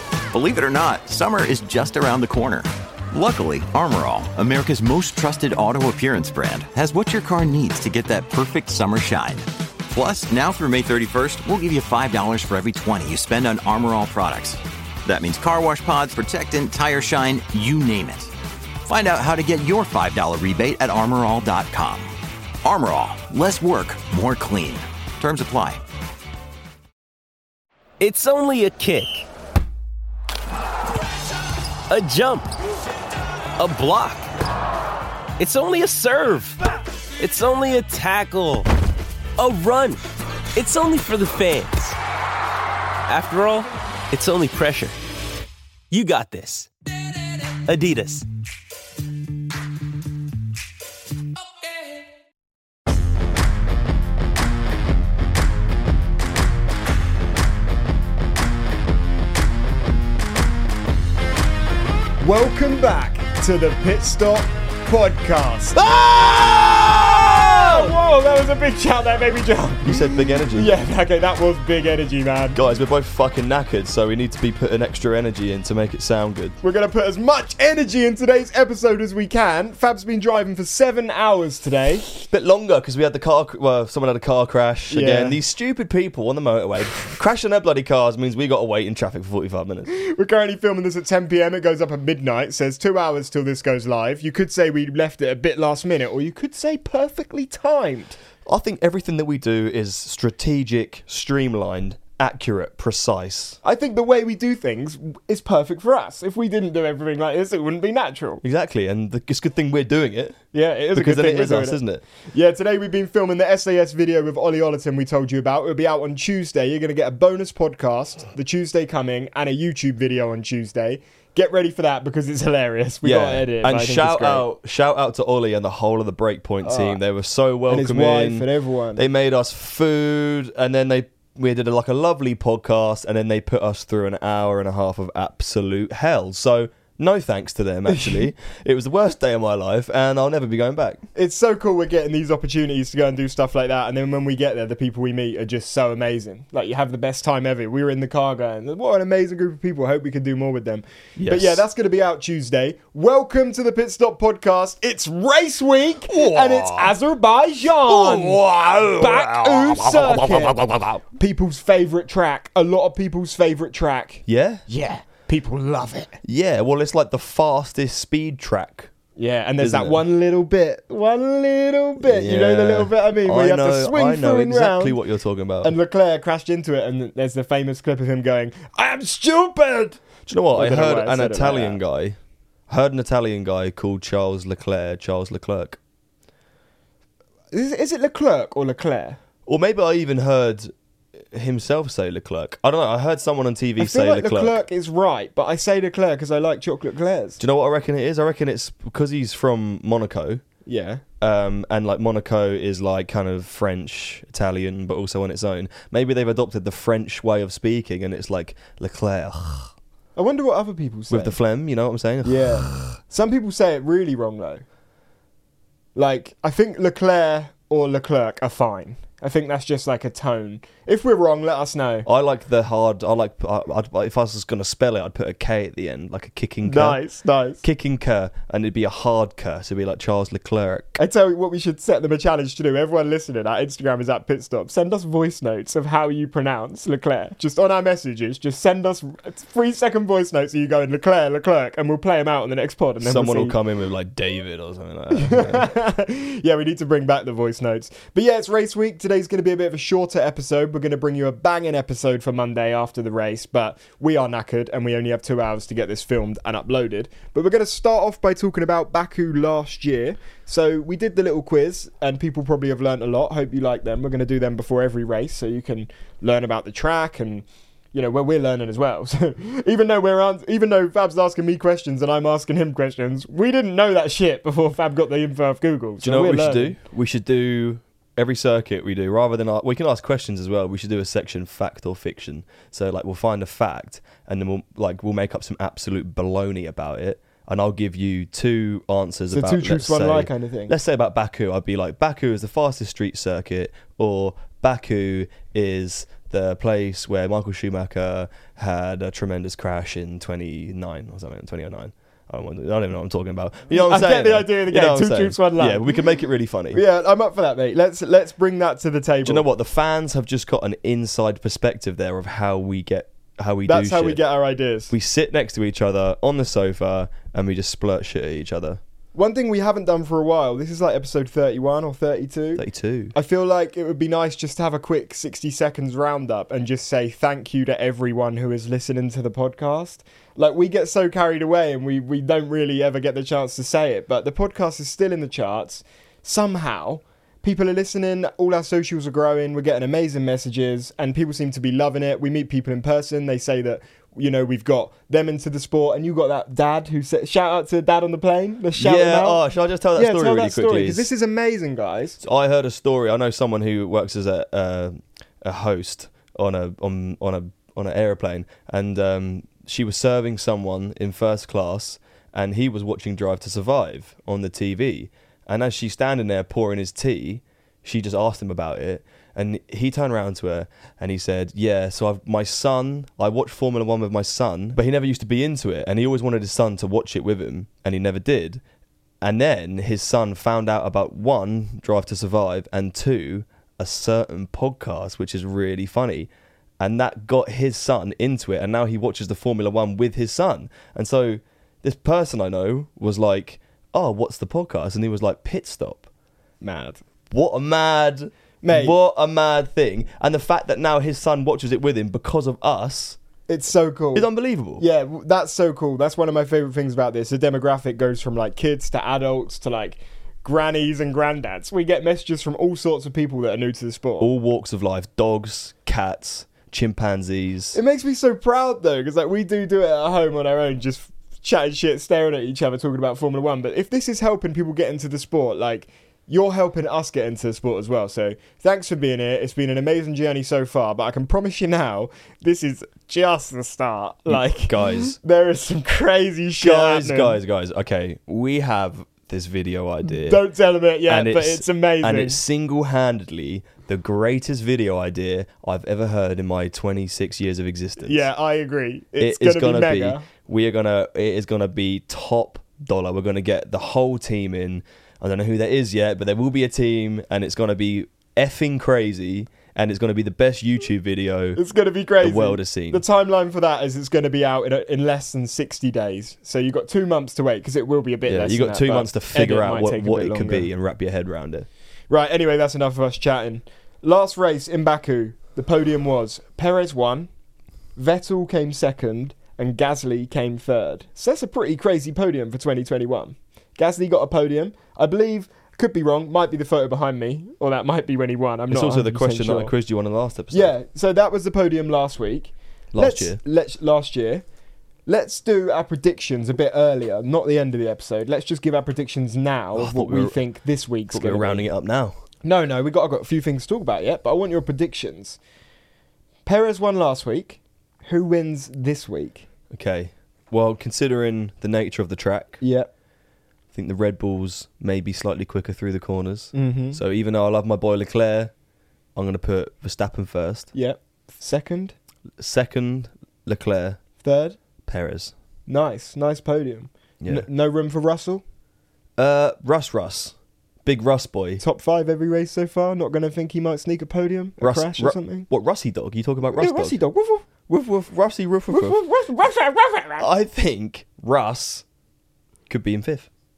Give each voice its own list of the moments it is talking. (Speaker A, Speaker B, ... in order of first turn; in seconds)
Speaker A: 0.3-18.3, 18.9-22.1, 22.6-25.8
Speaker B: 28.0-29.3, 31.9-32.5, 33.6-34.3, 35.4-36.6, 37.2-38.7, 39.4-40.0, 40.5-42.0, 43.1-45.0, 45.9-46.7, 47.6-48.3
Speaker C: 62.2-66.0, 67.3-72.6, 76.6-82.1, 84.9-85.4, 89.9-98.2, 103.6-108.4, 110.5-111.8, 112.3-124.5, 126.6-127.0, 127.7-129.0, 137.9-138.3, 141.2-158.4, 159.0-160.6, 161.1-166.2, 169.2-175.0, 175.6-180.0, 180.5-181.8, 187.5-189.2, 193.8-197.4, 200.7-201.0, 210.2-211.4, 212.2-214.6, 215.9-222.1, 226.6-227.6, 231.0-243.6, 245.1-276.8, 289.3-290.7, 303.7-305.8, 306.7-309.5, 313.7-314.9, 319.1-322.6, 323.1-349.4, 350.0-352.2, 396.6-397.0, 398.6-398.9, 403.5-414.3, 417.7-437.4, 440.2-442.4, 448.0-450.3, 461.6-470.7, 472.1-477.3, 478.0-489.7, 490.5-494.4, 495.1-501.7, 502.4-505.4, 506.5-509.5, 512.6-512.9, 516.5-517.0, 520.7-522.0, 524.2-524.6, 525.7-528.4, 531.6-535.5, 536.6-537.5, 538.7-540.3
Speaker D: 69.8-70.7, 72.5-76.6, 82.3-89.9, 98.5-103.6, 108.4-110.4, 111.0-112.0, 123.0-141.0, 151.2-151.6, 156.1-156.9, 157.9-161.0, 164.3-164.6, 166.2-168.9, 169.6-170.0, 172.0-175.7, 180.3-182.2, 182.7-185.8, 189.5-190.7, 191.3-194.6, 197.4-200.4, 201.2-209.7, 211.1-212.9, 222.1-227.0, 227.6-230.9, 243.0-245.7, 276.0-306.8, 309.2-314.2, 314.9-318.8, 322.6-323.1, 348.8-351.1, 352.2-378.6, 379.2-386.3, 386.8-396.1, 397.3-403.2, 404.1-404.8, 414.2-417.8, 434.3-435.2, 436.6-440.4, 441.1-448.3, 449.2-461.6, 462.2-463.0, 468.3-471.7, 488.7-490.7, 492.9-493.4, 499.8-500.4, 501.1-502.2, 509.7-512.6, 513.7-518.5, 519.2-520.7, 522.4-524.0, 524.9-525.3, 527.2-527.5, 529.2-530.3, 530.9-531.6, 534.6-537.0, 537.7-539.0, 540.2-541.8, 542.7-543.3